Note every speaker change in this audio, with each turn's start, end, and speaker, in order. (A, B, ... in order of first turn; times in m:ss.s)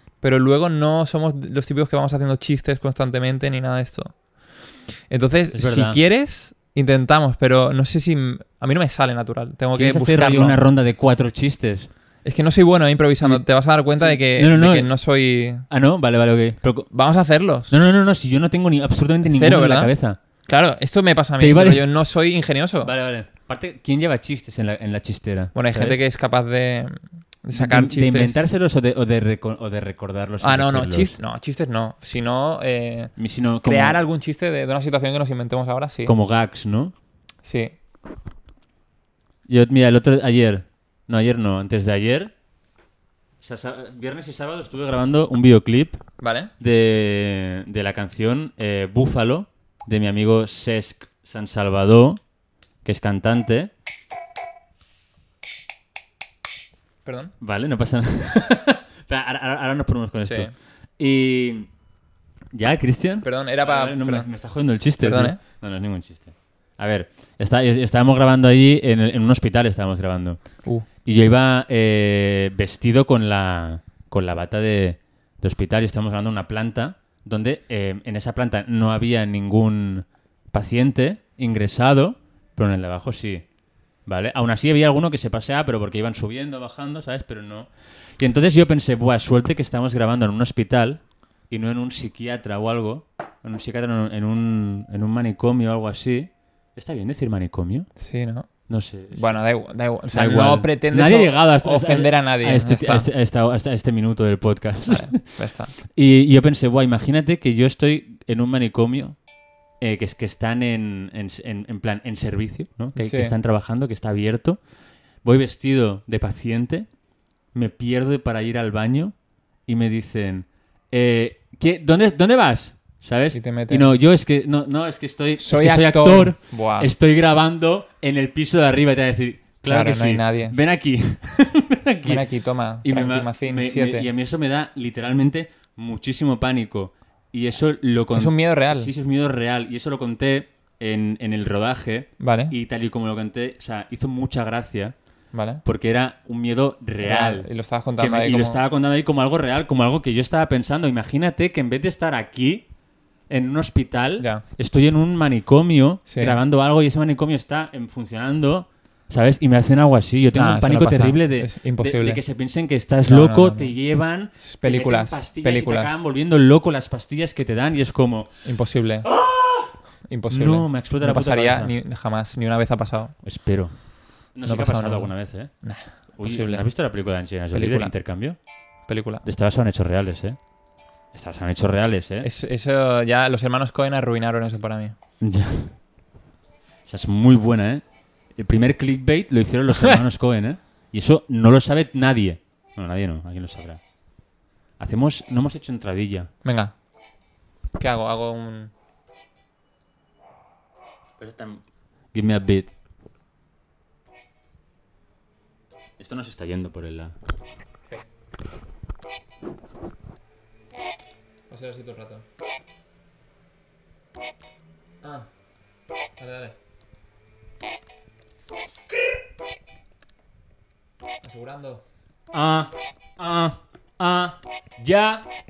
0:00.2-0:04.2 A
0:05.1-0:10.6 A
0:05.5-0:06.0 B
0:09.8-0:11.9 B
0:12.2-0:15.7 A
0:14.0-0:14.9 B
0:15.7-0:16.9 B
0:16.9-0:17.7 A
0:17.7-0:20.2 B
0:19.3-0:19.9 A
0:20.5-0:22.9 A
0:21.4-0:21.9 B
0:22.8-0:26.0 B
0:25.6-0:28.4 A
0:27.5-0:31.2 B
0:30.4-0:33.1 A
0:33.2-0:34.0 B
0:33.6-0:36.1 A
0:36.1-0:36.9 B
0:37.4-0:37.7 A
0:39.5-0:42.3 B
0:43.4-0:46.0 B
0:46.2-0:46.5 A
0:46.6-0:52.2 B
0:52.8-0:53.7 B
0:57.0-0:57.3 A
0:57.4-1:01.7 B
1:00.3-1:00.5 A
1:02.5-1:10.4 B
1:03.2-1:04.3 A
1:05.0-1:05.4 A
1:11.0-1:23.4 B
1:24.1-1:37.9 B
1:38.0-1:38.5 A
1:38.7-1:39.4 B
1:39.1-1:43.1 A
1:40.1-1:45.3 B
1:44.9-1:45.7 A
1:45.9-1:49.2 B
1:49.8-1:54.6 B
1:53.0-1:53.4 A
1:55.2-1:56.9 B
1:57.5-1:59.1 B
1:59.7-2:12.3 B
2:03.3-2:03.9 A
2:05.4-2:06.9 A
2:09.6-2:10.6 A
2:12.0-2:14.1 A
2:12.8-2:25.0 B
2:18.1-2:18.9 A
2:22.2-2:22.6 A
2:25.3-2:25.6 A
2:25.6-2:32.7 B
2:27.0-2:28.6 A
2:33.3-2:48.3 B
2:34.2-2:34.4 A
2:36.1-2:36.4 A
2:40.3-2:42.2 A
2:43.0-2:43.7 A
2:44.4-2:46.0 A
2:48.4-2:49.1 A
2:49.0-2:49.7 B
2:50.1-2:53.2 A
2:50.3-2:51.7 B
2:53.2-2:53.7 B
2:54.4-2:55.5 B
2:54.5-2:56.7 A
2:56.2-2:58.4 B
2:57.5-2:57.9 A
2:58.9-2:59.2 A
2:59.2-3:00.4 B
3:01.1-3:02.3 B
3:02.2-3:04.9 A
3:05.2-3:05.7 B
3:06.9-3:07.8 B
3:08.4-3:13.8 B
3:09.8-3:10.0 A
3:14.8-3:16.3 B
3:16.4-3:16.7 A
3:17.8-3:18.7 A
3:21.2-3:22.7 B
3:26.0-3:27.2 B
3:31.5-3:32.2 A
3:36.2-3:36.6 A
3:41.2-3:41.8 A
3:42.3-3:45.2 B